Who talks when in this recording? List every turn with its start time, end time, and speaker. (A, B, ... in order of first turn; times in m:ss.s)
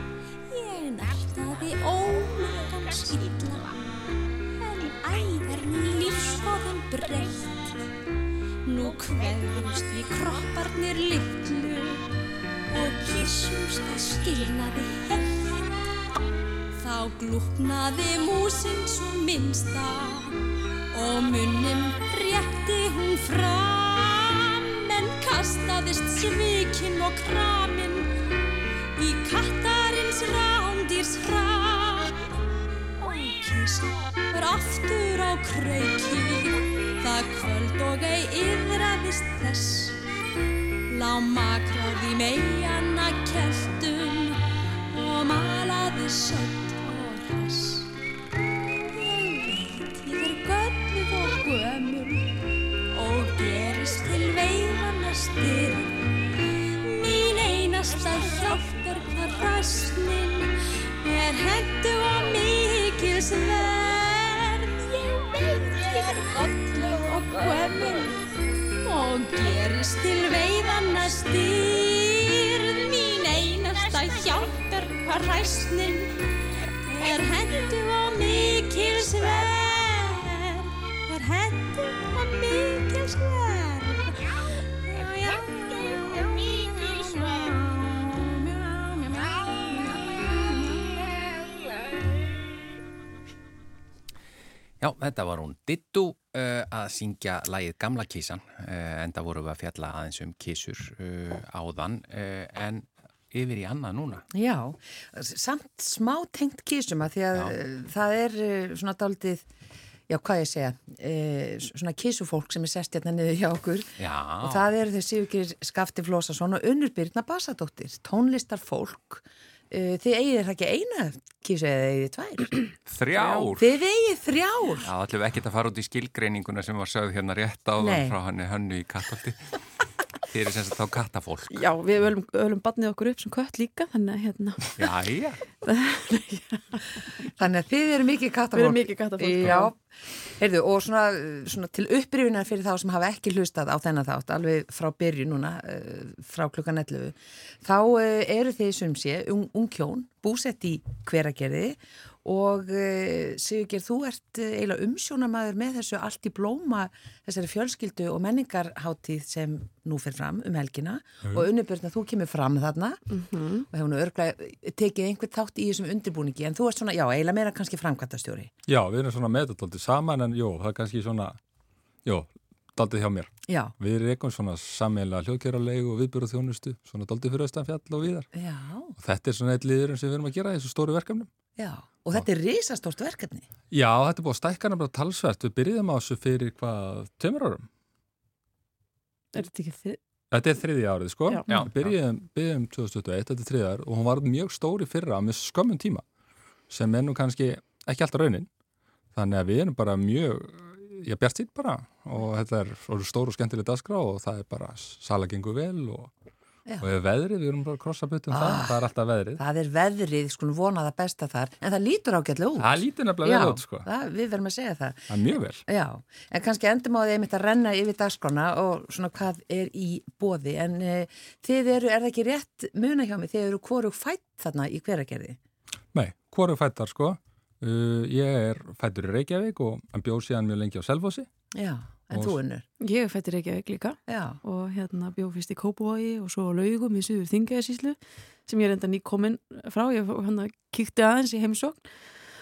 0:00.5-0:03.8 A
0:04.6-0:07.8 A
0:08.7-0:12.1 A
0:12.7-0:15.6 A
0:16.8-0:20.4 A
0:20.9-0:28.1 A
0:29.0-0:32.2 A
0:33.0-0:40.0 A
0:40.9-0:47.9 A
0:48.9-0:52.4 A
0:52.9-0:56.0 A
0:56.8-1:08.2 A
1:08.8-1:16.1 A
1:16.9-1:24.2 A
1:24.9-1:31.2 A
1:34.8-1:44.3 B
1:44.3-1:49.5 C
1:50.1-2:02.6 C
1:54.0-1:54.7 B
2:02.9-2:03.7 B
2:03.2-2:04.9 C
2:04.8-2:09.5 B
2:07.8-2:08.2 C
2:10.2-2:11.6 B
2:11.5-2:14.9 D
2:14.8-2:15.4 B
2:15.6-2:17.1 D
2:17.3-2:43.0 C
2:18.5-2:19.7 D
2:43.1-2:43.7 D
2:43.6-2:48.5 C
2:48.7-2:51.4 E
2:52.0-2:58.3 E
2:53.5-2:53.7 C
2:58.3-2:58.9 C
2:59.0-3:01.3 E
3:01.6-3:03.5 C
3:03.7-3:07.7 E
3:09.3-3:10.0 D
3:10.3-3:16.0 E
3:11.5-3:11.9 B
3:16.7-3:18.5 E
3:19.1-3:26.1 E
3:26.8-3:29.4 E
3:28.3-3:45.4 C
3:32.6-3:33.9 E
3:35.1-3:35.6 E
3:45.9-3:51.3 E
3:51.6-3:52.6 C
3:52.1-3:52.4 E
3:52.8-4:01.9 D
3:54.1-3:54.4 C